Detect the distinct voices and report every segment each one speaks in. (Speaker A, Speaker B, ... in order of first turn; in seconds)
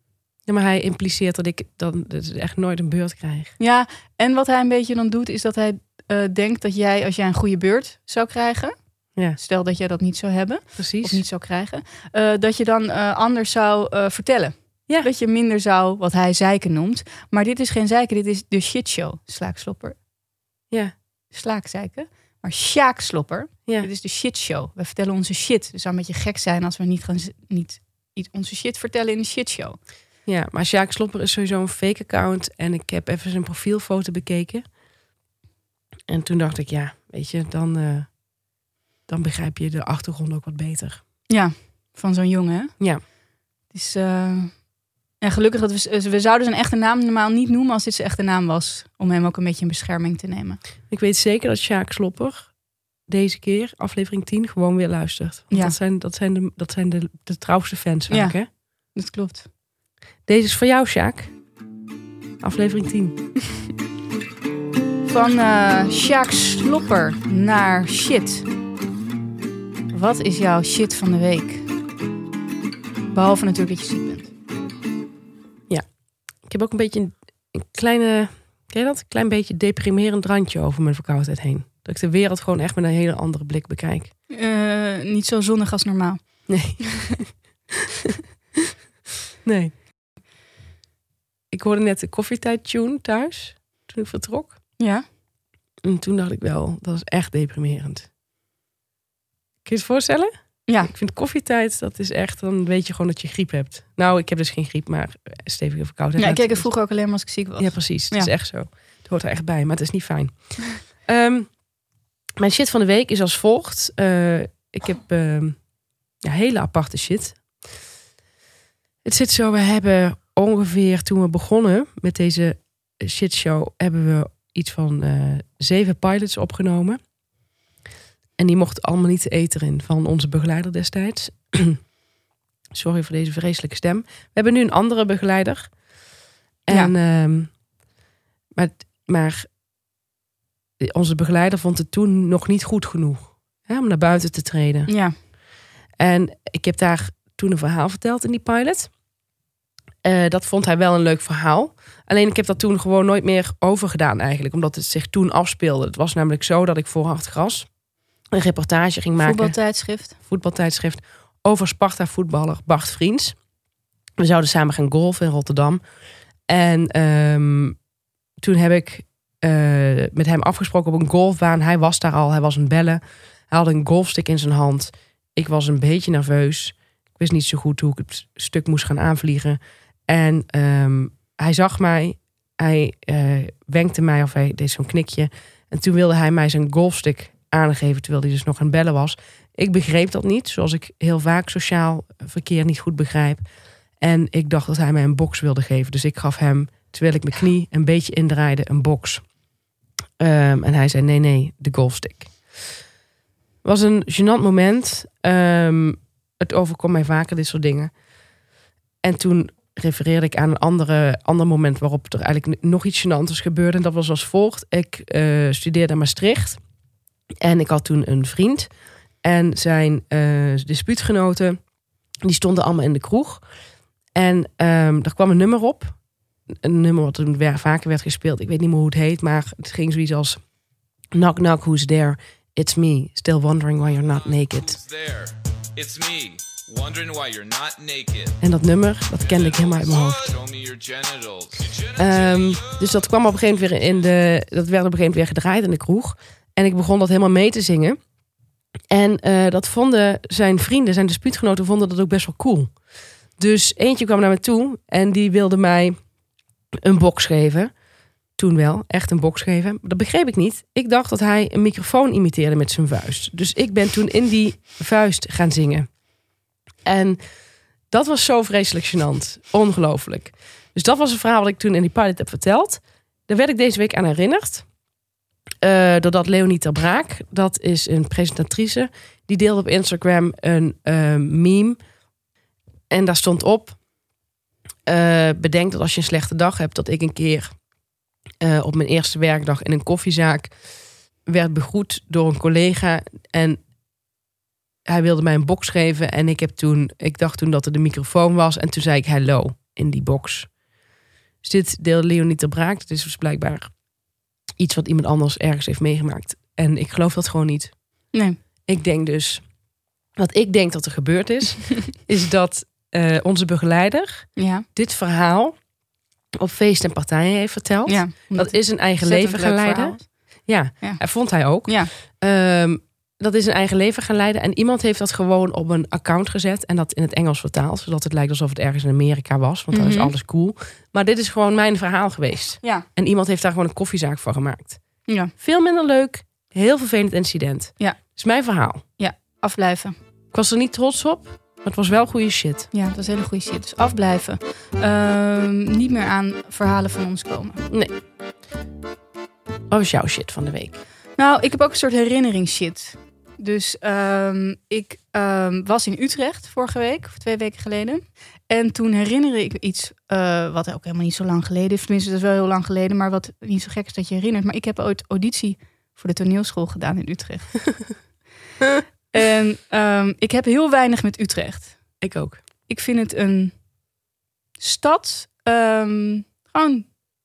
Speaker A: 0.5-3.5, 10.8-11.2, 30.2-34.7, 36.1-38.1, 39.0-41.0, 50.9-52.5, 53.1-58.5, 60.2-61.3, 62.4-63.2, 76.4-84.1, 86.5-87.4, 89.4-89.8, 91.5-94.6, 95.8-98.1, 99.6-106.7, 107.6-111.6, 112.4-115.6, 116.2-117.6, 119.0-127.0, 128.4-131.8, 132.7-135.7, 136.6-137.5, 138.6-139.5, 140.8-144.9, 146.0-148.9, 150.0-157.7, 158.3-159.6, 160.2-163.4, 164.2-165.8, 166.5-167.8, 168.4-193.4, 194.0-199.2, 200.2-202.3, 203.6-207.9, 209.0-216.6, 217.4-218.7, 219.2-221.6, 222.2-223.4, 224.1-226.0, 226.6-230.4, 231.1-234.8, 238.4-240.2, 242.0-248.0, 248.9-252.7, 253.4-255.9, 256.8-257.7, 258.4-265.9, 266.8-267.2, 267.9-274.7, 275.6-281.8, 282.9-283.8, 284.9-287.6, 288.4-290.5, 291.2-293.6, 294.9-300.5, 301.4-303.7, 304.6-307.8, 308.6-309.4, 310.2-315.5, 316.4-334.8, 335.4-338.8, 340.3-342.7, 349.7-350.8, 372.0-372.4
Speaker B: 3.6-8.7, 9.3-20.0, 21.3-29.8, 41.3-42.8, 43.7-44.6, 45.2-50.6, 55.5-55.8, 58.1-58.4, 58.9-59.5, 65.0-68.5, 69.9-71.7, 73.1-74.3, 84.3-86.8, 94.8-95.0, 100.7-100.9, 106.2-108.3, 144.9-145.1, 159.2-160.2, 308.1-308.4, 314.4-314.7, 317.9-320.1, 320.8-321.9, 329.7-330.1, 335.1-335.3, 339.0-339.9, 342.7-347.6, 351.2-367.7, 369.1-371.8, 372.7-373.5, 374.6-376.9
Speaker C: 234.0-238.4, 239.2-244.0